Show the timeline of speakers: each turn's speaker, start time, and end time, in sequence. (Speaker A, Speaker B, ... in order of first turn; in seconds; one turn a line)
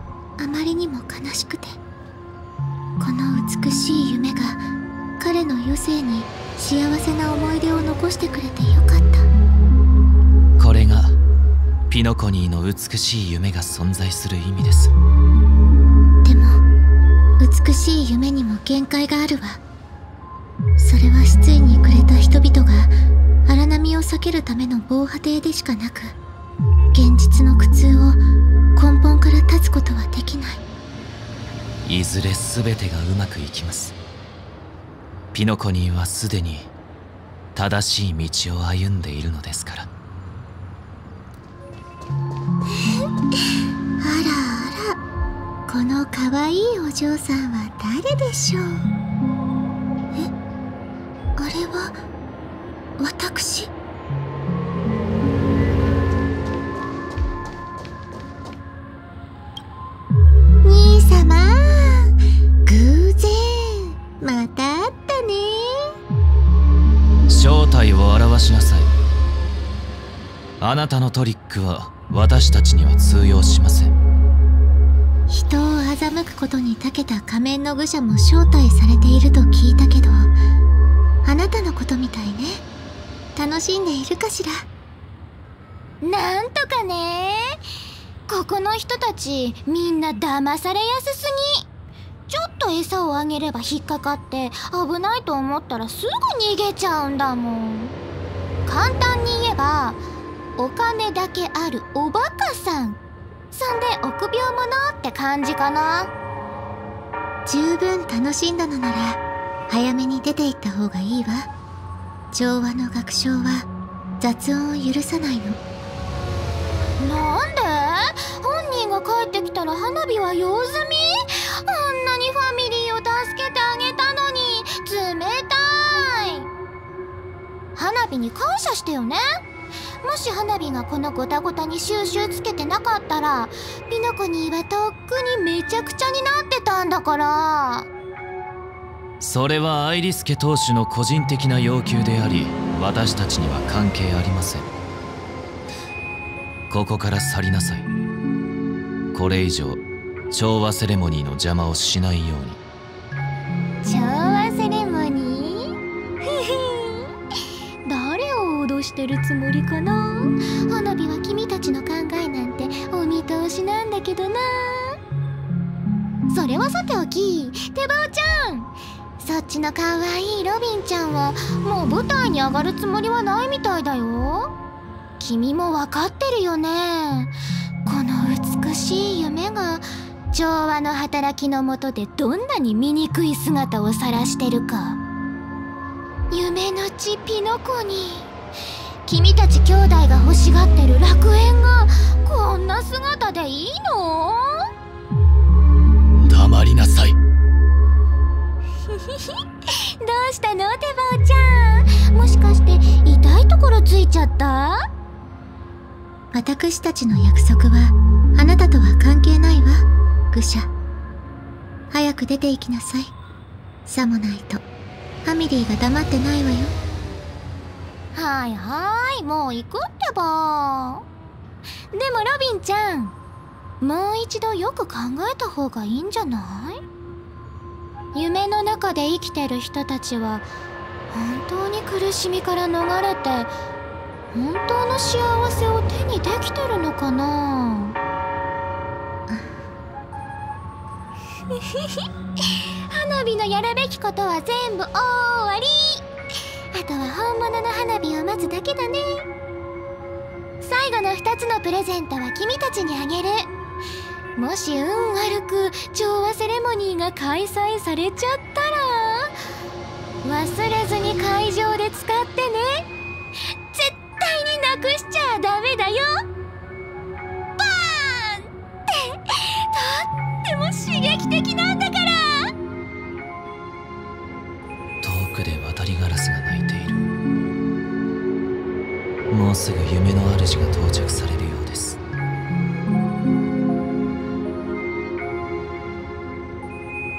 Speaker A: 0.4-1.8
Speaker A: 3.0-4.6
Speaker A: 5.2-9.3
Speaker B: 10.6-11.2
Speaker B: 11.9-14.9
Speaker A: 16.2-16.6
Speaker A: 17.4-19.6
Speaker A: 20.8-22.9
Speaker A: 23.5-26.2
Speaker A: 26.9-28.2
Speaker A: 28.8-30.6
Speaker B: 31.9-34.0
Speaker B: 35.3-36.7
Speaker B: 37.5-39.9
Speaker A: 44.0-45.0
Speaker A: 45.7-48.8
Speaker A: 51.4-52.0
Speaker A: 53.0-53.7
Speaker A: 60.6-62.0
Speaker A: 62.7-65.8
Speaker B: 67.3-68.9
Speaker B: 70.6-73.9
Speaker A: 75.3-80.3
Speaker A: 81.2-82.6
Speaker A: 83.3-84.7
Speaker C: 86.0-87.6
Speaker C: 88.3-91.7
Speaker C: 92.3-98.0
Speaker C: 98.7-100.0
Speaker C: 100.6-103.0
Speaker C: 103.5-106.1
Speaker A: 107.5-111.5
Speaker A: 112.3-113.7
Speaker A: 114.2-115.6
Speaker C: 117.0-126.5
Speaker C: 127.8-129.4
Speaker C: 130.0-137.9
Speaker B: 139.2-144.7
Speaker B: 146.7-147.9
Speaker B: 149.1-152.6
Speaker C: 153.8-157.1
Speaker C: 157.8-165.0
Speaker C: 166.3-174.6
Speaker C: 175.2-177.3
Speaker C: 177.8-185.0
Speaker C: 186.3-188.3
Speaker C: 189.1-194.6
Speaker C: 200.0-204.8
Speaker A: 206.3-210.7
Speaker A: 211.9-213.1
Speaker A: 213.9-214.6
Speaker A: 215.2-216.7
Speaker C: 218.1-221.0
Speaker C: 221.9-223.2
Speaker C: 223.8-226.8
Speaker C: 228.1-230.5
Speaker C: 231.1-233.5
Speaker C: 234.3-238.0
Speaker C: 242.9-246.0
Speaker C: 246.7-249.3
Speaker C: 250.6-253.5
Speaker C: 254.4-259.3
Speaker C: 260.2-262.9
Speaker C: 263.7-266.2
Speaker C: 267.6-268.4
Speaker C: 269.3-272.4
Speaker B: 275.0-277.0
Speaker B: 279.3-282.0